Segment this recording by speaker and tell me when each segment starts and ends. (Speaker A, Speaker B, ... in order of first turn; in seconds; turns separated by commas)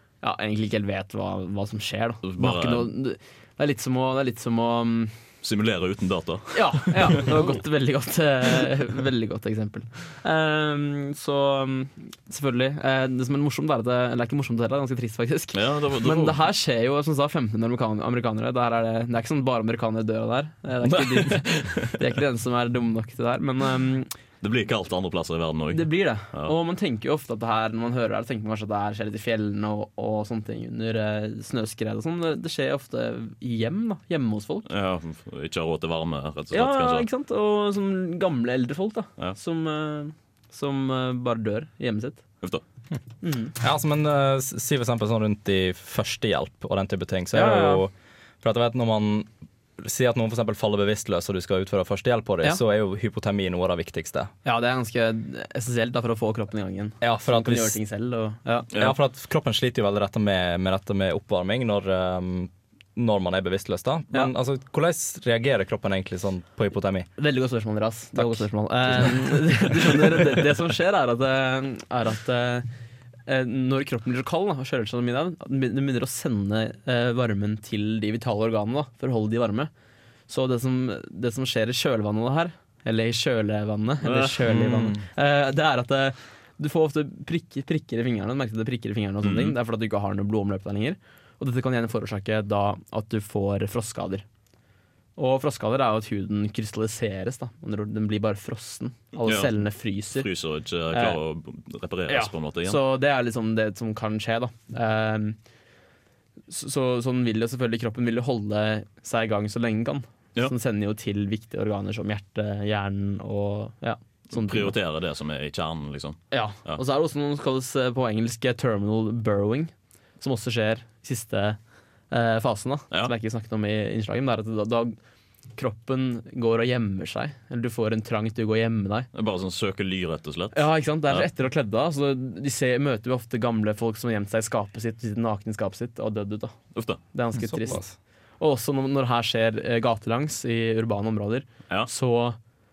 Speaker A: 0.2-5.2, Speaker B: 2.2-2.9, Speaker B: 5.4-7.3, Speaker A: 6.5-24.1, Speaker B: 15.5-16.4, Speaker B: 20.9-21.9, Speaker B: 24.4-26.5, Speaker A: 25.7-34.6, Speaker B: 34.6-37.0, Speaker A: 36.5-42.2, Speaker A: 43.2-43.5, Speaker C: 43.6-54.3, Speaker A: 47.3-47.8, Speaker A: 54.4-58.7, Speaker C: 57.0-57.8, Speaker C: 58.7-67.1, Speaker A: 67.2-72.7, Speaker C: 68.1-69.6, Speaker A: 73.3-79.7, Speaker A: 80.3-94.2, Speaker C: 84.5-85.0, Speaker B: 89.2-89.5, Speaker A: 95.2-100.3, Speaker B: 99.2-102.8, Speaker A: 100.9-101.2, Speaker A: 102.1-105.4, Speaker A: 106.5-114.7, Speaker B: 114.3-116.8, Speaker A: 116.3-121.6, Speaker A: 122.1-125.0, Speaker A: 125.5-129.1, Speaker B: 129.1-131.3, Speaker A: 130.5-142.4, Speaker B: 136.7-137.0, Speaker C: 137.3-137.9